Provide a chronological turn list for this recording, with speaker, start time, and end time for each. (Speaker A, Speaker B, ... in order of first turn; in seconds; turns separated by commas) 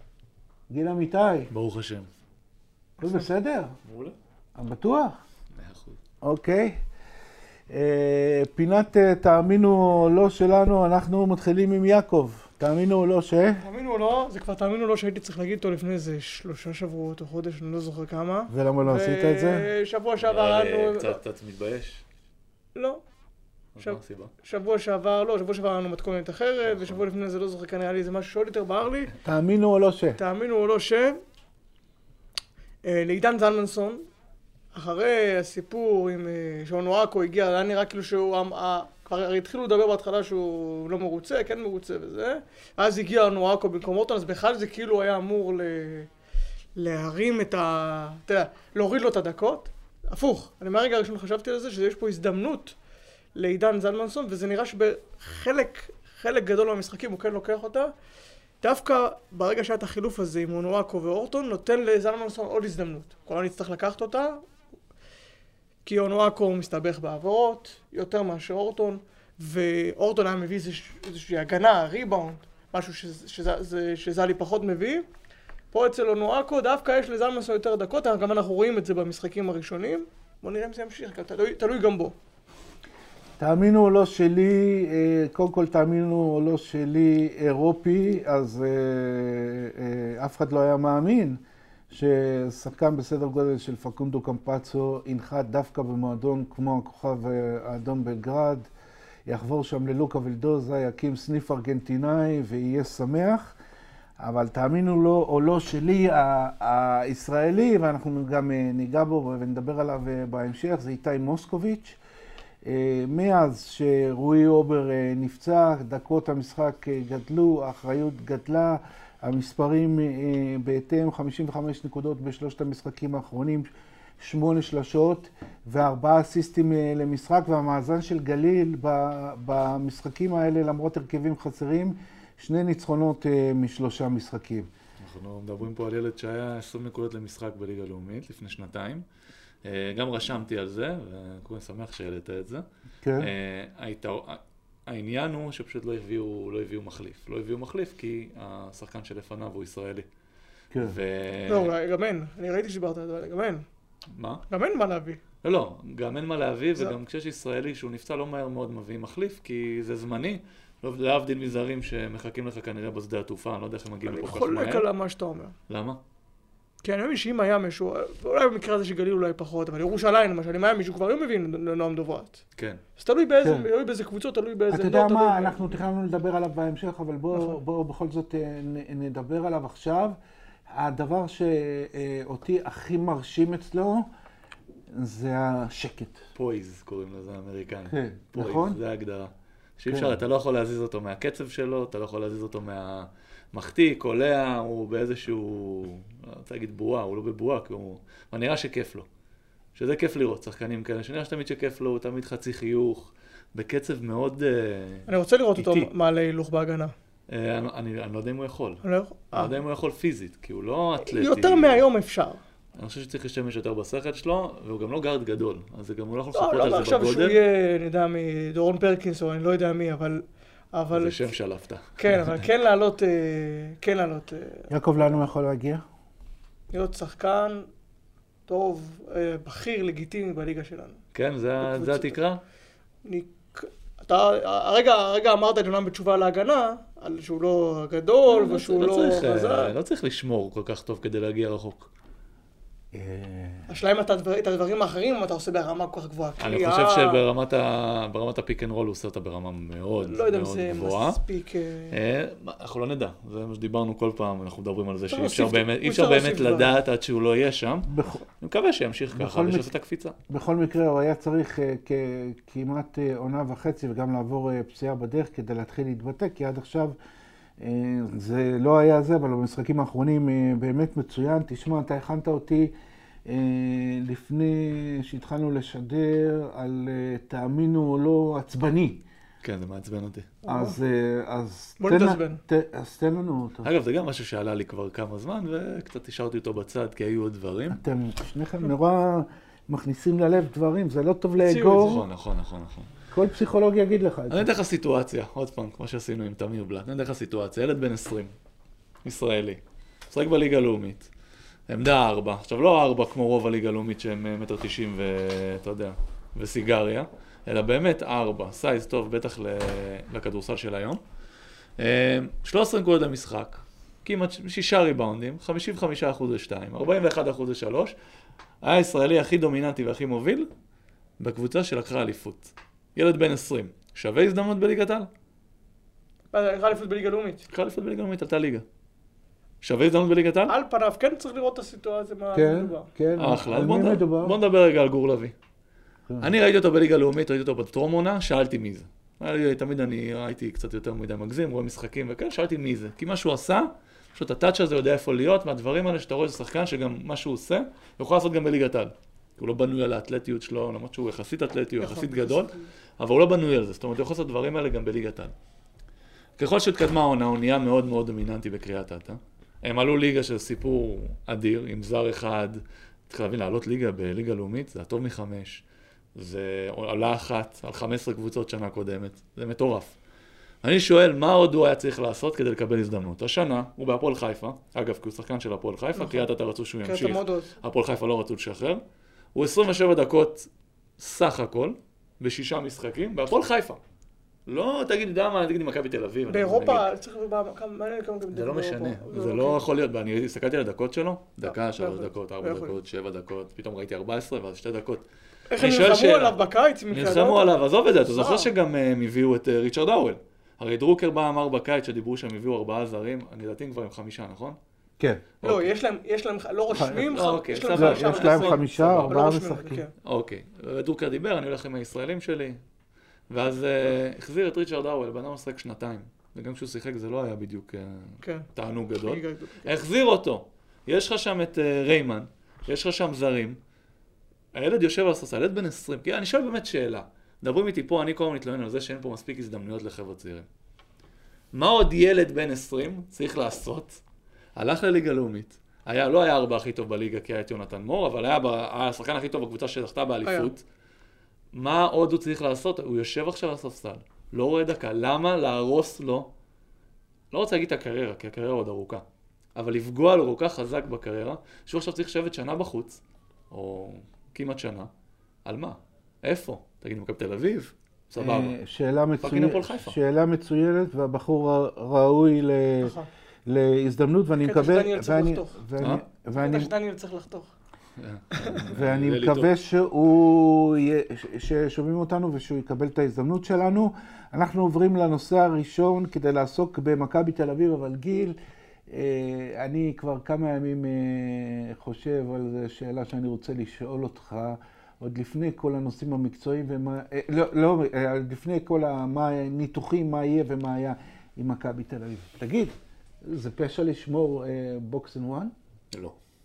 Speaker A: 0.7-1.5, Speaker B: 1.5-2.1, Speaker A: 3.0-3.8, Speaker B: 3.9-4.1, Speaker A: 4.5-5.2, Speaker B: 5.5-6.0, Speaker A: 6.2-6.8, Speaker A: 7.7-13.6, Speaker C: 13.6-21.2, Speaker A: 18.5-19.7, Speaker B: 20.2-22.0, Speaker C: 22.7-23.0, Speaker B: 23.7-24.3, Speaker C: 23.8-29.1, Speaker B: 26.6-27.0, Speaker A: 29.2-30.2, Speaker C: 30.2-31.2, Speaker C: 32.8-34.0, Speaker C: 34.7-46.1, Speaker C: 46.8-52.8, Speaker C: 53.3-57.9, Speaker C: 58.6-64.4, Speaker C: 65.8-75.0, Speaker C: 75.7-82.2, Speaker A: 83.4-98.7, Speaker A: 99.2-103.5, Speaker A: 104.2-112.0, Speaker A: 112.6-123.7, Speaker A: 124.2-134.7, Speaker B: 135.0-139.0, Speaker B: 139.6-142.7, Speaker A: 143.0-143.3, Speaker B: 143.2-150.0, Speaker A: 150.7-151.0, Speaker B: 150.8-151.7, Speaker C: 151.5-153.7, Speaker B: 154.1-154.4, Speaker C: 154.5-155.2, Speaker B: 155.4-164.9, Speaker C: 164.0-165.5, Speaker B: 165.7-166.0, Speaker C: 166.8-172.4, Speaker B: 172.6-172.8, Speaker C: 173.0-175.7, Speaker A: 173.4-173.7, Speaker A: 174.7-180.2, Speaker A: 180.7-184.1, Speaker A: 184.9-186.2, Speaker B: 186.3-199.1, Speaker A: 187.9-188.8, Speaker A: 189.9-190.2, Speaker B: 199.7-205.9, Speaker C: 205.1-206.9, Speaker B: 207.3-208.8, Speaker C: 208.8-209.6, Speaker B: 209.3-211.8, Speaker C: 211.0-212.4, Speaker B: 212.7-217.4, Speaker C: 216.3-220.2, Speaker C: 220.7-221.3, Speaker B: 220.9-222.4, Speaker C: 222.0-225.2, Speaker A: 224.7-225.8, Speaker C: 226.7-227.7, Speaker C: 228.5-231.0, Speaker B: 231.1-232.4, Speaker C: 231.6-232.1, Speaker C: 233.0-239.7, Speaker B: 238.3-241.9, Speaker A: 242.9-243.7, Speaker C: 243.7-247.2, Speaker B: 246.4-251.2, Speaker C: 250.0-252.0, Speaker B: 251.9-260.1, Speaker C: 255.1-256.7, Speaker A: 257.9-258.2, Speaker A: 259.1-259.7, Speaker A: 260.3-266.9, Speaker A: 267.6-272.7, Speaker A: 273.2-279.0, Speaker B: 279.4-280.3, Speaker C: 280.4-280.7, Speaker A: 280.5-283.7, Speaker C: 281.8-282.4, Speaker B: 283.6-287.8, Speaker A: 287.7-292.0, Speaker C: 291.4-291.9, Speaker B: 291.7-292.9, Speaker A: 293.1-294.5, Speaker B: 294.3-298.3, Speaker B: 299.0-299.6, Speaker B: 300.1-301.1, Speaker B: 301.7-311.0, Speaker B: 311.8-317.9, Speaker B: 318.6-320.5, Speaker B: 321.2-325.1, Speaker C: 326.3-327.4, Speaker B: 327.5-328.6, Speaker B: 329.6-330.5, Speaker C: 330.5-332.9, Speaker A: 332.3-334.4, Speaker B: 333.2-335.3, Speaker A: 336.1-336.3, Speaker B: 336.2-355.3, Speaker C: 351.8-352.7, Speaker B: 356.4-365.6, Speaker B: 366.1-369.9, Speaker B: 370.6-378.8, Speaker C: 375.9-376.3, Speaker C: 376.8-377.5, Speaker B: 379.3-383.8, Speaker B: 384.5-386.9, Speaker C: 386.3-389.6, Speaker B: 388.3-395.0, Speaker C: 391.4-392.8, Speaker C: 395.5-398.5, Speaker B: 395.6-396.4, Speaker B: 396.9-404.6, Speaker A: 405.0-405.3, Speaker B: 405.4-405.7, Speaker C: 405.4-409.9, Speaker A: 406.7-407.1, Speaker B: 406.8-409.2, Speaker A: 407.7-409.8, Speaker B: 410.0-412.6, Speaker B: 413.3-423.6, Speaker C: 418.2-418.5, Speaker C: 419.0-419.9, Speaker B: 424.5-430.5, Speaker B: 431.5-434.0, Speaker B: 434.6-440.6, Speaker C: 440.2-440.5, Speaker B: 441.5-446.3, Speaker B: 447.3-449.0, Speaker B: 449.6-454.9, Speaker B: 455.4-458.6, Speaker A: 458.2-462.9, Speaker B: 459.2-460.0, Speaker C: 462.8-463.1, Speaker A: 463.4-466.7, Speaker C: 464.4-465.6, Speaker C: 466.4-467.5, Speaker B: 468.0-469.5, Speaker C: 468.4-468.6, Speaker A: 468.6-478.4, Speaker A: 478.9-495.5